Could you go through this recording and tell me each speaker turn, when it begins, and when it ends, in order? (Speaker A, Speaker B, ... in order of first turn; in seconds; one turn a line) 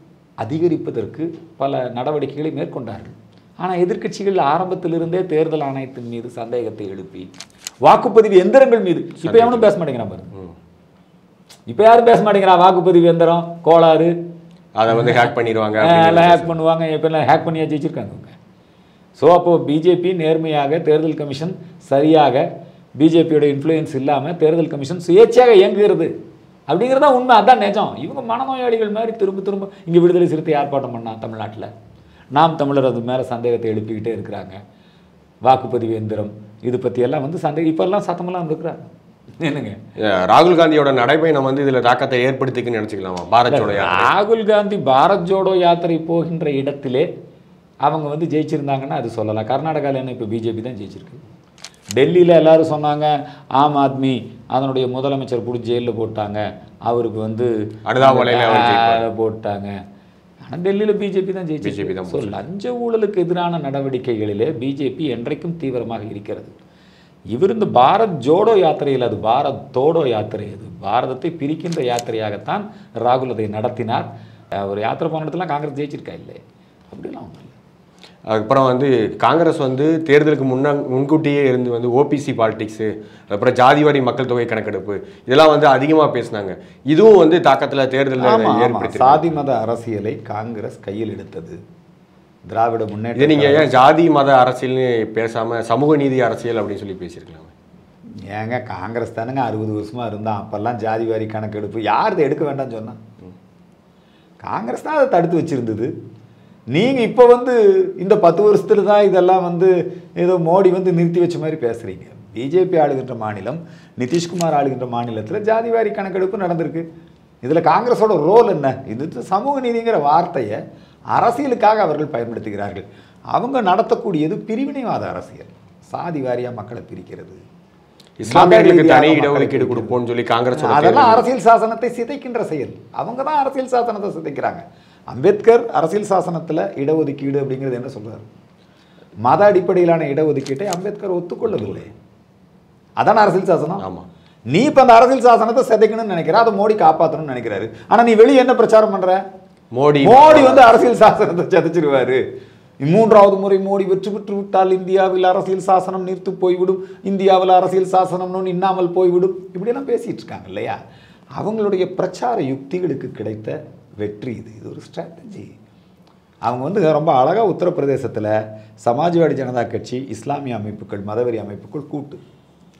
Speaker A: 0.4-7.3
Speaker A: 7.8-10.3
Speaker B: 9.2-9.7
Speaker A: 11.7-14.1
Speaker B: 14.8-16.5
Speaker A: 14.9-18.3
Speaker A: 19.2-26.1
Speaker A: 26.7-31.7
Speaker A: 32.3-34.6
Speaker A: 35.5-39.8
Speaker B: 40.0-44.1
Speaker A: 43.5-47.1
Speaker A: 47.8-51.2
Speaker A: 52.0-59.7
Speaker B: 57.9-59.0
Speaker A: 60.4-66.5
Speaker B: 61.6-62.4
Speaker A: 67.3-76.4
Speaker A: 76.9-77.5
Speaker B: 78.3-89.4
Speaker A: 88.2-91.6
Speaker A: 92.5-93.8
Speaker B: 93.1-97.5
Speaker A: 98.2-103.0
Speaker A: 104.4-105.9
Speaker A: 106.7-116.8
Speaker A: 117.4-120.6
Speaker A: 121.1-127.4
Speaker B: 128.2-131.2
Speaker A: 128.2-129.9
Speaker A: 130.6-138.3
Speaker A: 139.2-141.9
Speaker A: 143.0-143.8
Speaker B: 143.8-144.1
Speaker A: 144.5-149.2
Speaker B: 149.7-150.7
Speaker A: 150.0-152.2
Speaker A: 152.8-160.8
Speaker A: 161.4-165.5
Speaker A: 166.4-172.2